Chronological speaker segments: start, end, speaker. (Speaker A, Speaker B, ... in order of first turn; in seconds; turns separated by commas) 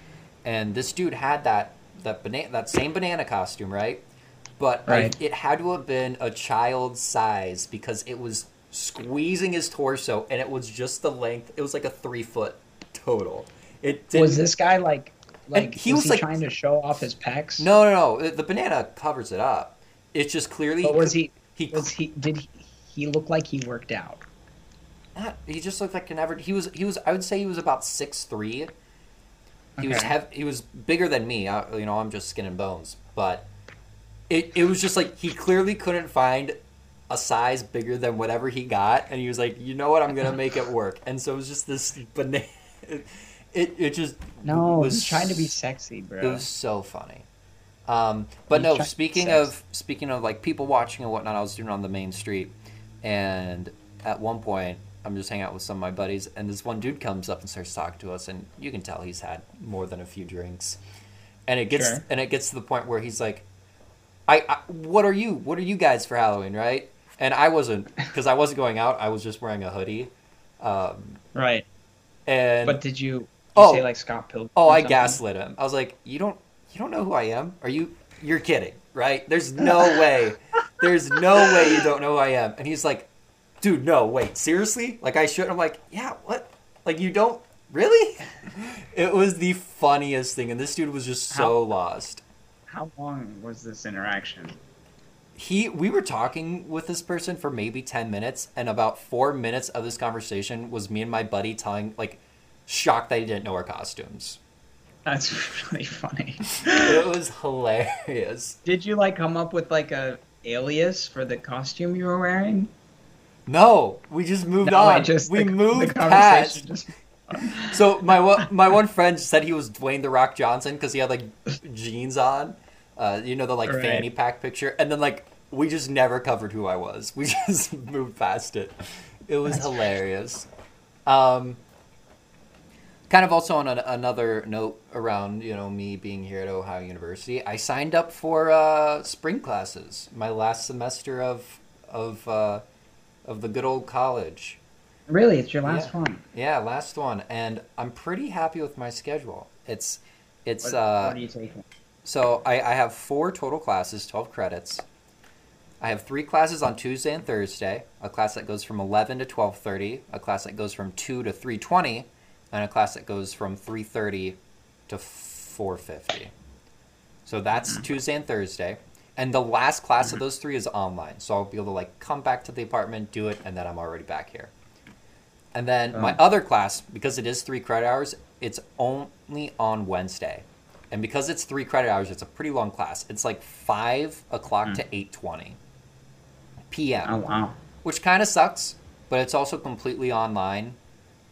Speaker A: 0.4-4.0, Speaker A: 4.6-14.4, Speaker B: 4.9-5.2, Speaker B: 14.1-17.7, Speaker A: 15.5-16.3, Speaker A: 17.6-21.9, Speaker B: 20.8-24.2, Speaker A: 25.1-28.7, Speaker B: 29.8-30.1, Speaker A: 29.8-33.5, Speaker A: 34.3-36.6, Speaker A: 37.1-45.5, Speaker B: 44.4-46.5, Speaker A: 46.2-47.2, Speaker A: 47.9-60.8, Speaker B: 48.5-49.5, Speaker A: 61.5-63.5, Speaker B: 61.7-62.0, Speaker A: 64.3-71.2, Speaker B: 71.3-71.7, Speaker A: 72.2-72.8, Speaker B: 72.6-75.2, Speaker A: 73.5-73.9, Speaker A: 74.5-83.1, Speaker B: 79.7-80.0, Speaker B: 81.4-81.8, Speaker A: 83.6-92.2, Speaker B: 91.3-91.5, Speaker B: 92.7-94.6, Speaker A: 95.3-104.4, Speaker B: 105.0-107.0, Speaker A: 106.7-108.6, Speaker B: 108.6-112.7, Speaker A: 113.5-116.6, Speaker B: 114.6-117.8, Speaker A: 117.6-130.5, Speaker B: 123.7-124.1, Speaker A: 131.1-131.6, Speaker A: 133.1-142.6, Speaker A: 143.2-144.6, Speaker B: 145.1-146.2, Speaker A: 145.6-151.2, Speaker B: 150.6-151.7, Speaker A: 152.0-154.8, Speaker A: 155.8-166.3, Speaker A: 167.2-174.5, Speaker A: 175.5-185.6, Speaker B: 175.9-176.2, Speaker A: 186.7-187.1, Speaker B: 187.0-187.6, Speaker A: 187.8-190.8